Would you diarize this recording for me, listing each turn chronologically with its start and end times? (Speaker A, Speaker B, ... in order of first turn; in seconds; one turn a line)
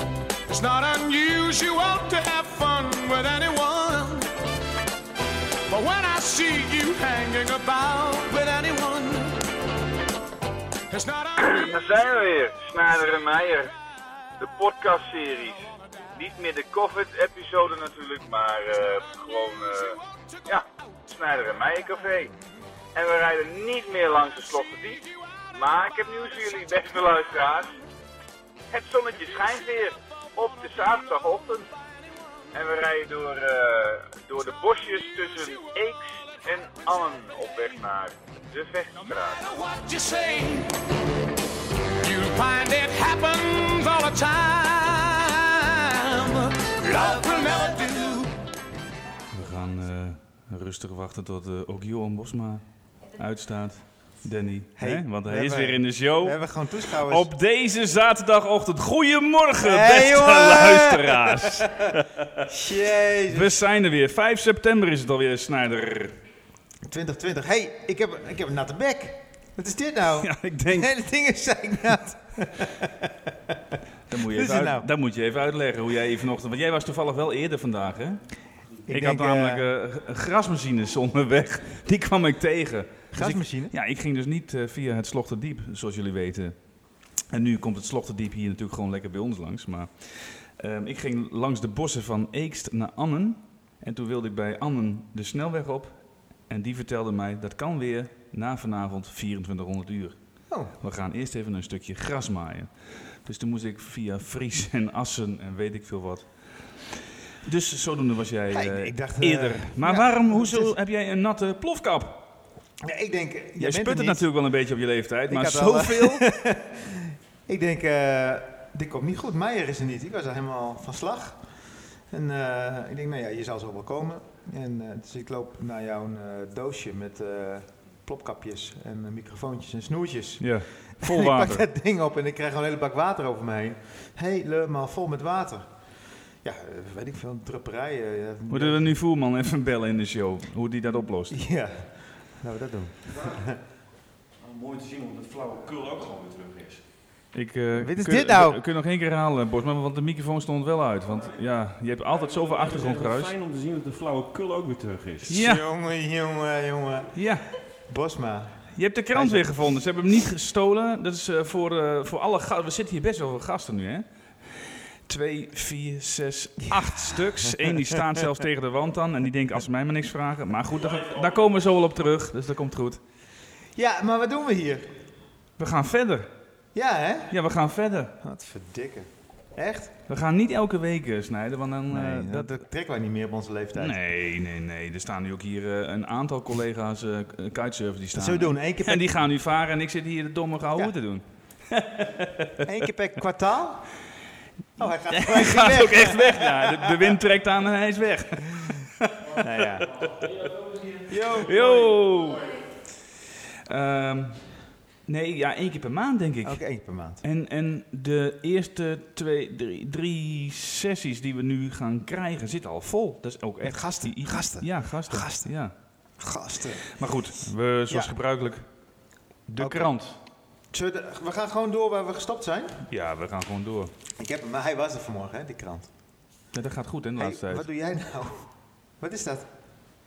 Speaker A: 0.5-4.3
Speaker A: 5.7-9.5
Speaker A: 10.9-11.7
Speaker B: 11.4-13.7
Speaker B: 14.4-22.3
Speaker B: 22.9-27.8
Speaker B: 28.7-31.7
Speaker B: 32.5-39.5
Speaker A: 39.5-40.7
Speaker A: 42.0-48.3
Speaker C: 49.3-62.4
Speaker D: 54.8-57.3
Speaker D: 59.6-61.7
Speaker D: 62.5-63.6
Speaker C: 63.3-66.2
Speaker D: 66.8-73.8
Speaker C: 70.2-70.9
Speaker C: 74.1-78.2
Speaker D: 74.3-74.9
Speaker D: 78.9-79.7
Speaker C: 78.9-106.9
Speaker D: 83.1-83.7
Speaker D: 100.5-100.7
Speaker C: 107.4-112.3
Speaker D: 108.5-110.8
Speaker D: 112.8-114.3
Speaker C: 113.6-116.3
Speaker D: 115.3-135.9
Speaker C: 130.4-131.7
Speaker D: 136.4-139.0
Speaker C: 138.5-141.4
Speaker D: 141.3-143.6
Speaker E: 144.4-146.8
Speaker C: 147.3-153.3
Speaker D: 147.8-148.6
Speaker E: 152.1-155.4
Speaker C: 155.3-155.6
Speaker D: 155.3-157.3
Speaker C: 157.1-157.5
Speaker D: 157.8-159.5
Speaker C: 158.8-164.1
Speaker C: 165.1-173.0
Speaker D: 166.7-167.7
Speaker E: 170.8-171.6
Speaker D: 173.8-175.0
Speaker C: 175.6-176.3
Speaker D: 176.7-177.4
Speaker C: 177.3-178.1
Speaker D: 178.2-180.0
Speaker C: 180.1-182.6
Speaker D: 181.9-184.0
Speaker C: 183.8-192.6
Speaker D: 188.1-189.2
Speaker D: 192.6-193.9
Speaker D: 194.8-197.2
Speaker C: 195.1-199.4
Speaker D: 199.4-200.1
Speaker D: 201.1-201.8
Speaker C: 201.3-202.6
Speaker C: 203.7-215.7
Speaker D: 206.4-207.2
Speaker D: 213.6-215.7
Speaker D: 216.2-217.0
Speaker C: 216.9-218.9
Speaker D: 217.9-218.1
Speaker D: 219.5-219.9
Speaker C: 219.5-220.2
Speaker D: 220.7-222.9
Speaker C: 222.9-223.9
Speaker D: 224.2-225.9
Speaker C: 226.5-227.7
Speaker D: 227.2-229.5